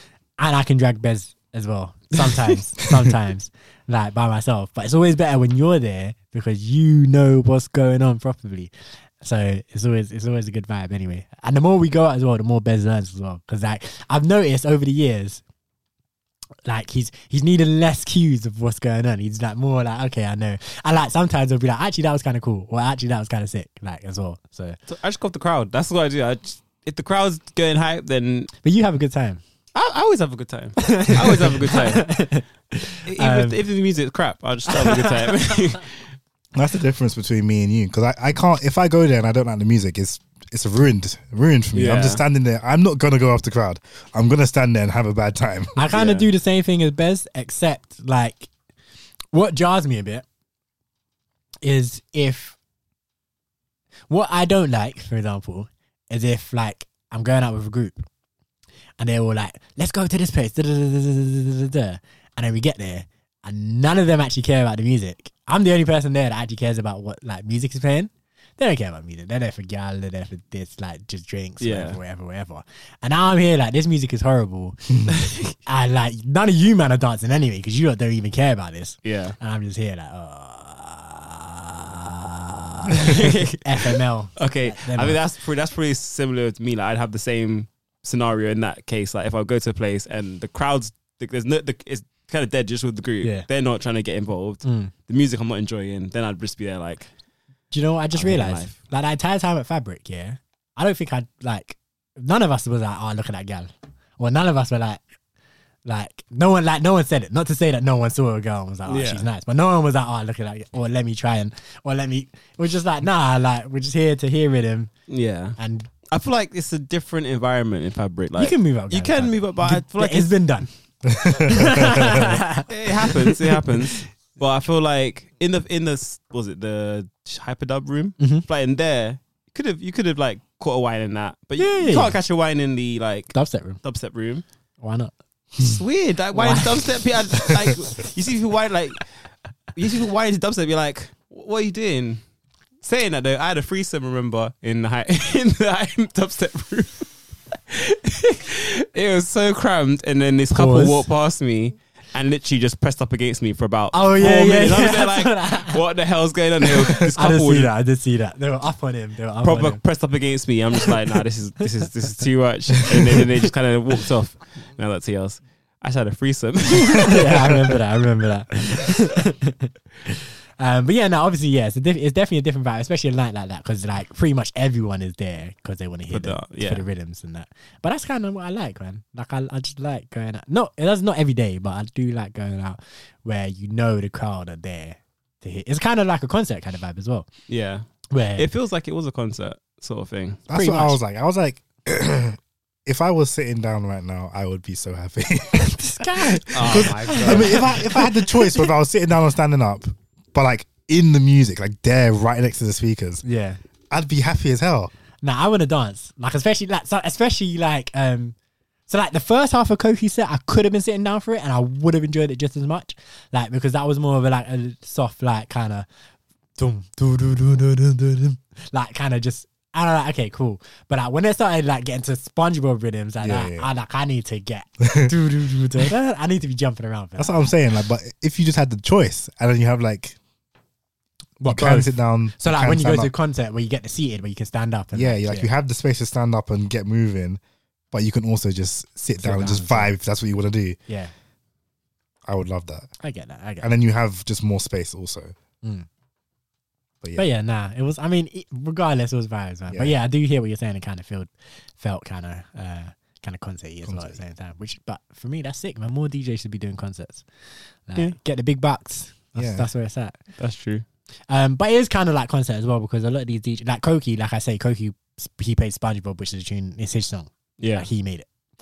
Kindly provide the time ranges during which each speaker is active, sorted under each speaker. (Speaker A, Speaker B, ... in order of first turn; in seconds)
Speaker A: 0.4-15.4, 16.6-24.8, 28.6-29.4, 30.8-33.6, 34.7-35.3, 45.8-48.5, 49.3-50.2, 51.6-52.6, 54.1-58.0, 59.0-74.8, 75.7-85.2, 94.6-94.9, 97.7-105.0, 105.8-114.9, 115.6-115.9, 118.4-120.7, 121.3-123.4, 128.2-128.4, 131.6-132.2, 133.3-133.8, 134.8-135.1, 136.3-136.7, 150.5-151.0, 153.9-155.8, 156.9-159.8, 167.0-187.3, 188.1-188.5, 190.5-191.0, 195.6-198.7, 203.2-203.6, 205.2-208.3, 208.9-215.9, 216.6-227.5, 231.4-235.5, 239.2-239.9, 240.9-241.1, 243.0-243.7, 247.2-257.2, 257.9-260.2, 261.3-268.3
Speaker B: 2.1-2.5, 24.9-28.5, 29.7-32.1, 33.1-36.0, 41.7-42.2, 45.9-46.3, 71.6-72.0, 79.0-79.4, 83.0-97.1, 98.2-98.8, 108.9-109.2, 115.1-115.6, 116.1-120.3, 122.7-134.4, 135.6-139.1, 139.7-142.2, 142.8-147.1, 147.7-157.7, 159.4-167.5, 176.1-176.8, 187.5-190.4, 196.5-197.7, 260.4-260.9, 267.6-267.9
Speaker C: 36.5-45.7, 121.0-122.3, 190.5-203.2, 203.9-204.9, 223.2-223.7, 224.8-225.1, 227.2-230.2, 231.4-233.1, 234.9-237.4, 237.9-240.8, 242.2-242.9, 243.6-245.3, 247.0-247.3, 249.7-249.9, 253.8-254.2, 259.4-259.7